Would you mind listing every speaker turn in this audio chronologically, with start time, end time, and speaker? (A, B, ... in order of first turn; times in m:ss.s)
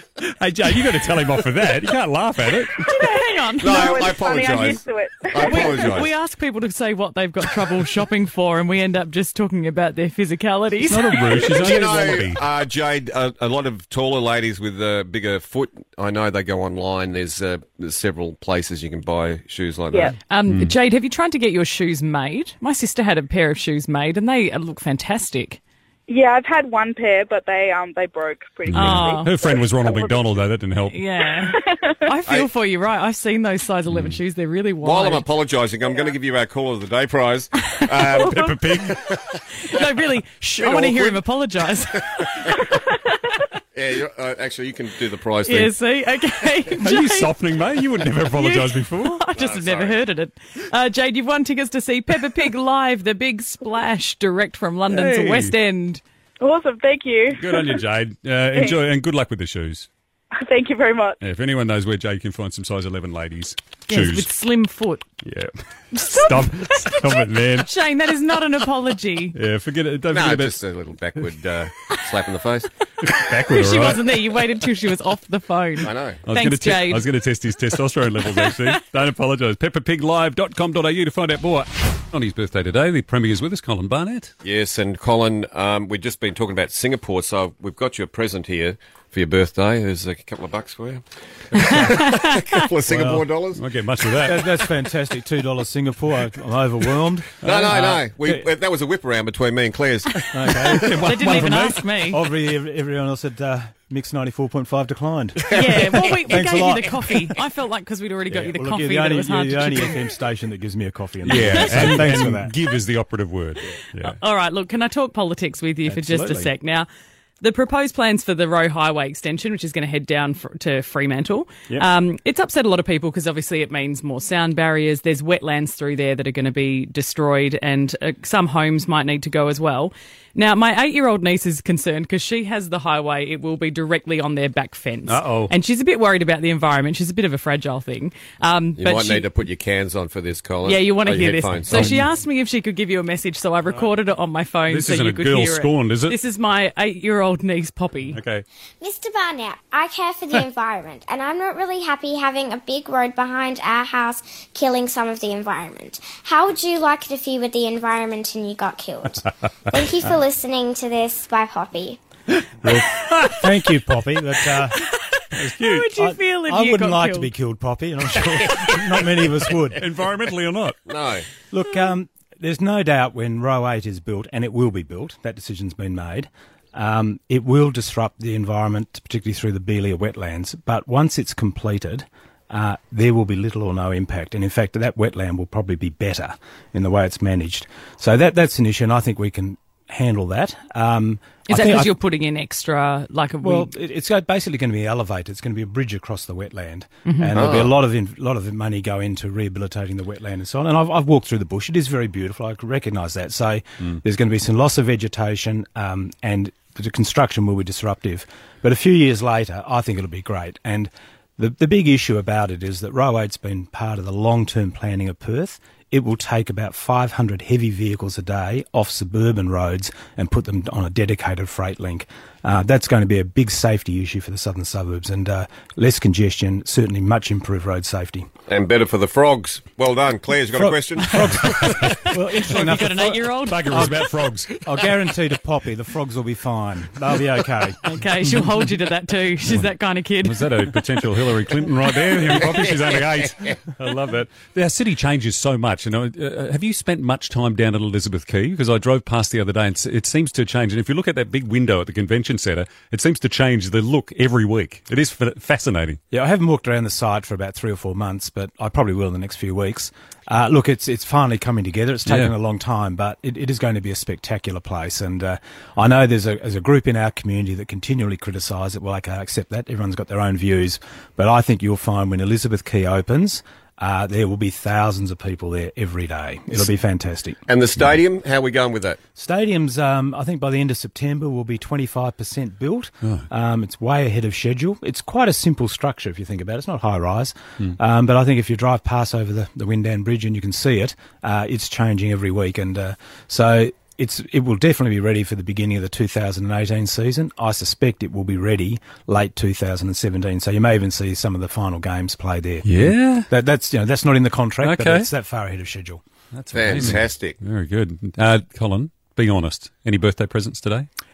0:00.2-0:03.0 A
0:02.9-0:04.1 B
0:03.6-0:06.1 C
0:03.7-0:06.0 D
0:05.4-0:11.8 B
0:10.8-0:12.4 A
0:11.3-0:20.1 C
0:20.3-0:25.6 B
0:20.5-0:20.8 A
0:26.1-0:30.4 D
0:28.6-0:31.1 A
0:28.7-0:29.3 B
0:30.9-0:35.2 B
0:31.4-0:32.1 D
0:33.9-0:34.2 A
0:34.8-0:39.4 C
0:37.7-0:38.1 B
0:38.2-0:38.9 A
0:39.5-0:42.6 B
0:40.6-0:41.2 C
0:43.7-0:45.7 C
0:45.4-0:47.3 B
0:46.8-0:49.2 A
0:48.2-0:56.0 B
0:49.3-0:50.0 C
0:54.9-0:55.5 A
0:56.4-0:57.8 D
0:57.3-0:59.9 A
1:00.4-1:01.2 D
1:01.2-1:04.3 A
1:03.9-1:05.0 B
1:05.2-1:07.7 A
1:05.9-1:09.4 B
1:09.3-1:10.6 A
1:10.1-1:12.7 C
1:13.0-1:14.0 A
1:13.0-1:17.1 B
1:15.8-1:16.2 C
1:16.2-1:24.3 A
1:18.4-1:18.7 B
1:24.4-1:31.0 C
1:31.5-1:31.8 A
1:31.6-1:33.6 C
1:31.6-1:32.3 B
1:32.8-1:33.3 E
1:33.5-1:34.5 A
1:34.2-1:37.5 E
1:37.4-1:38.0 A
1:37.4-1:41.2 C
1:38.2-1:38.4 E
1:40.1-1:42.2 B
1:40.3-1:45.6 E
1:40.9-1:41.7 A
1:45.5-1:50.0 B
1:45.6-1:46.1 C
1:46.2-1:46.9 E
1:48.3-1:52.5 E
1:51.2-1:54.1 A
1:51.3-1:52.1 B
1:54.0-1:56.9 B
1:55.8-1:56.5 E
1:57.4-2:19.3 B
2:15.0-2:15.5 A
2:18.8-2:22.0 C
2:20.6-2:28.2 B
2:21.7-2:22.1 A
2:24.7-2:26.2 A
2:28.1-2:28.4 A
2:28.8-2:42.0 F
2:42.7-2:43.3 A
2:43.4-2:44.8 E
2:45.4-2:45.9 A
2:45.4-2:47.3 B
2:46.0-2:49.8 E
2:49.8-2:50.8 A
2:50.9-2:51.2 C
2:51.5-3:11.9 E
3:11.5-3:13.7 B
3:13.4-3:48.3 E
3:17.0-3:17.4 B
3:17.3-3:17.7 C
3:48.5-3:52.0 C
3:50.5-3:54.0 E
3:51.1-3:51.4 B
3:51.4-3:51.9 A
3:52.3-3:54.0 B
3:53.4-3:54.5 A
3:54.6-3:57.8 E
3:57.8-4:00.7 B
4:00.2-4:16.0 A
4:02.6-4:02.8 C
4:16.1-4:37.4 E
4:22.1-4:22.3 A
4:37.5-4:39.0 C
4:39.2-5:06.0 E
5:02.6-5:03.3 A
5:04.6-5:05.1 A
5:06.3-5:10.9 A
5:06.5-5:07.4 C